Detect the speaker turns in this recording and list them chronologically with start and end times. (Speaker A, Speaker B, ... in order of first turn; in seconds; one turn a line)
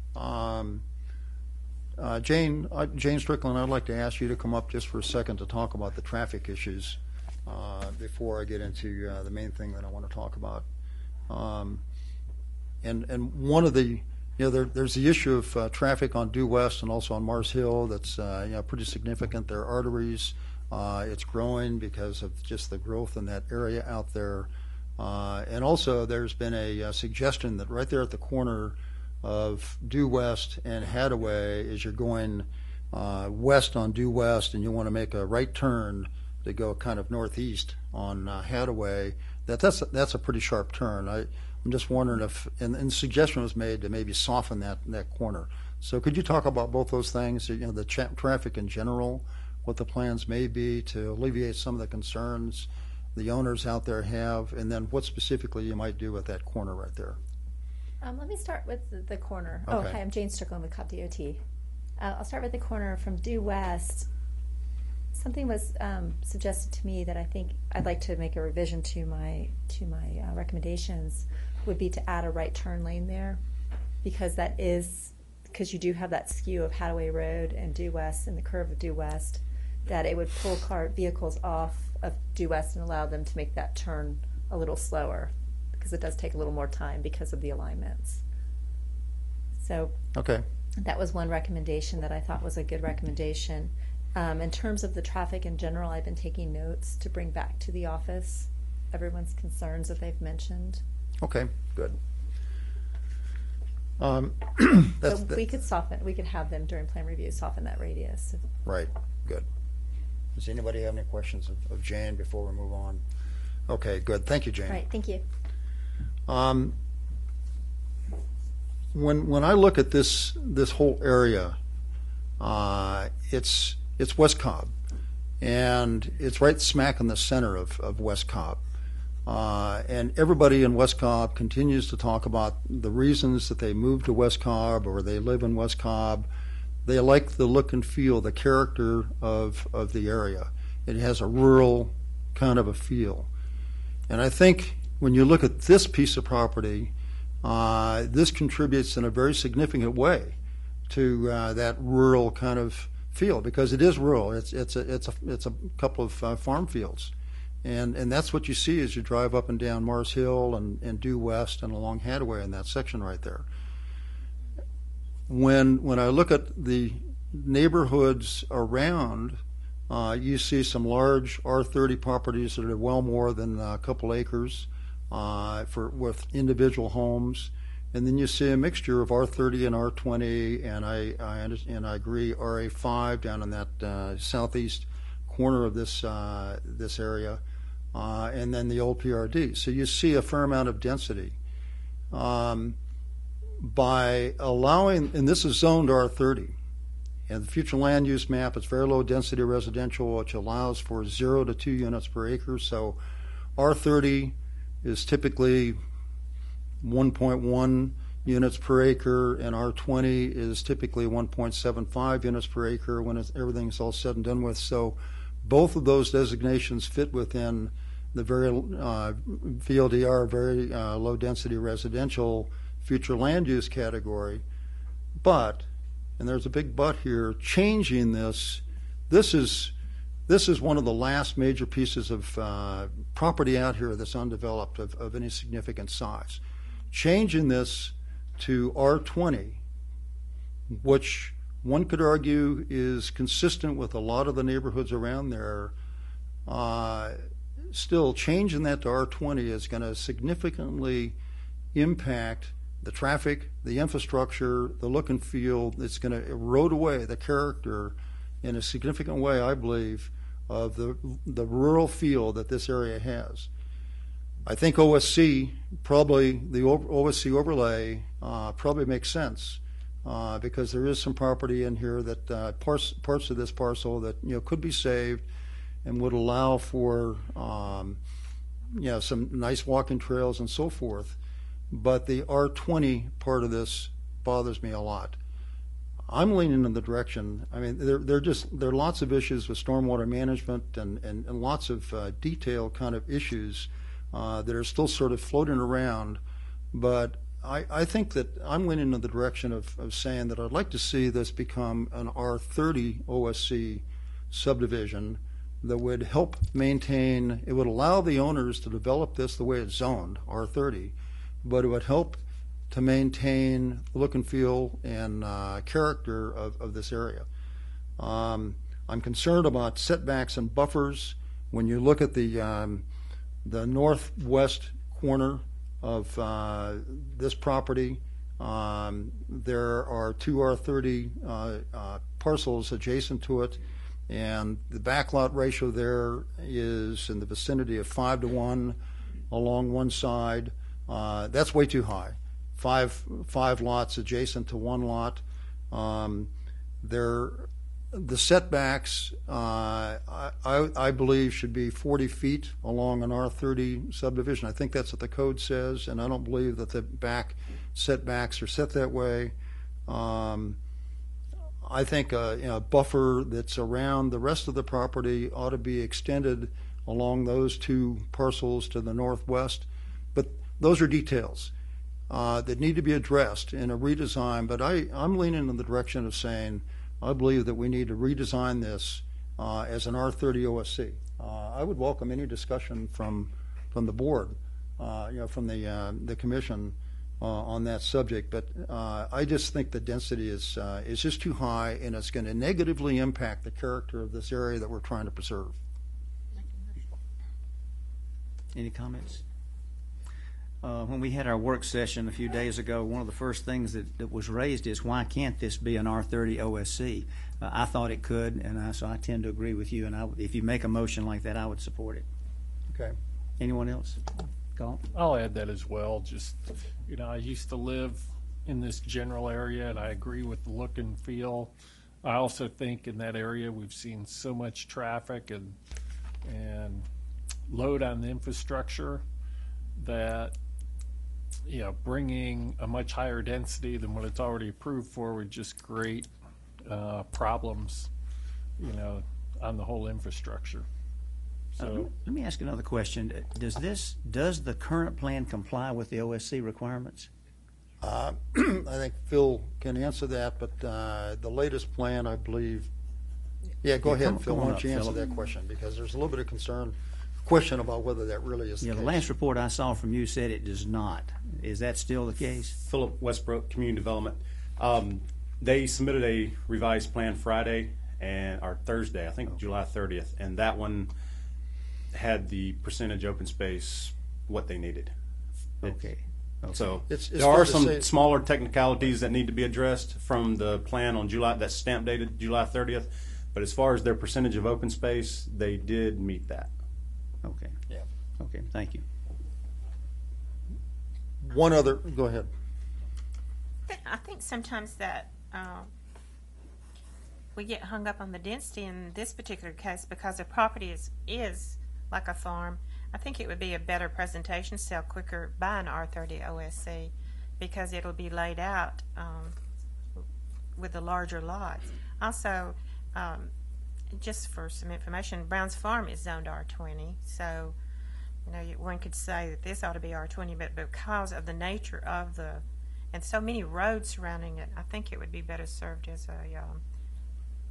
Speaker A: 0.1-0.8
Speaker A: 2.0-10.7
Speaker A: 11.3-11.8
Speaker A: 12.8-57.2
Speaker B: 58.0-61.4
Speaker A: 59.7-60.0
Speaker B: 62.0-64.1
Speaker B: 65.1-73.4
Speaker B: 74.0-88.2
Speaker B: 89.6-89.9
Speaker A: 90.2-90.5
Speaker B: 90.8-100.8
Speaker A: 101.2-102.0
Speaker A: 104.0-105.4
Speaker B: 105.0-108.5
Speaker A: 108.7-109.5
Speaker A: 110.3-113.0
Speaker A: 113.7-114.8
Speaker B: 114.7-115.2
Speaker A: 116.3-116.8
Speaker A: 118.9-121.6
Speaker A: 122.4-124.7
Speaker A: 125.4-128.6
Speaker A: 129.3-136.3
Speaker A: 136.8-143.3
Speaker A: 144.1-150.4
Speaker A: 150.9-157.1
Speaker A: 157.6-163.5
Speaker A: 165.3-187.4
Speaker A: 187.9-191.4
Speaker A: 192.1-192.8
Speaker A: 193.6-196.6
Speaker A: 197.3-203.0
Speaker A: 203.6-205.8
Speaker A: 206.8-224.4
Speaker A: 225.2-225.7
Speaker A: 226.2-229.7
Speaker A: 230.3-236.4
Speaker A: 236.9-239.6
Speaker A: 240.7-245.7
Speaker A: 246.5-251.2
Speaker A: 251.7-263.5
Speaker A: 264.5-275.3
Speaker A: 275.9-278.0
Speaker A: 278.7-281.2
Speaker A: 281.7-285.2
Speaker A: 286.1-296.2
Speaker A: 296.7-317.3
Speaker A: 318.0-322.9
Speaker A: 323.4-338.8
Speaker A: 339.3-346.3
Speaker A: 346.8-359.3
Speaker A: 359.9-360.6
Speaker A: 361.6-371.5
Speaker A: 372.1-395.6
Speaker C: 398.5-399.2
Speaker C: 400.6-412.1
Speaker A: 412.7-413.0
Speaker C: 413.4-414.0
Speaker C: 414.6-414.8
Speaker D: 414.9-425.6
Speaker D: 426.2-426.9
Speaker D: 427.5-429.0
Speaker D: 429.8-430.4
Speaker D: 431.4-436.1
Speaker D: 436.6-437.9
Speaker D: 438.6-440.7
Speaker C: 441.6-447.1
Speaker D: 441.6-441.9
Speaker A: 447.8-452.7
Speaker A: 453.6-459.1
Speaker C: 453.8-455.0
Speaker C: 458.6-462.6
Speaker E: 462.6-470.9
Speaker E: 471.9-474.9
Speaker E: 475.6-475.9
Speaker C: 475.6-476.7
Speaker E: 476.5-486.5
Speaker A: 476.9-477.9
Speaker C: 487.2-487.5
Speaker C: 488.2-488.9
Speaker A: 491.2-492.3
Speaker F: 493.7-495.7
Speaker F: 497.4-509.4
Speaker F: 510.6-513.3
Speaker F: 513.9-517.6
Speaker F: 518.2-526.6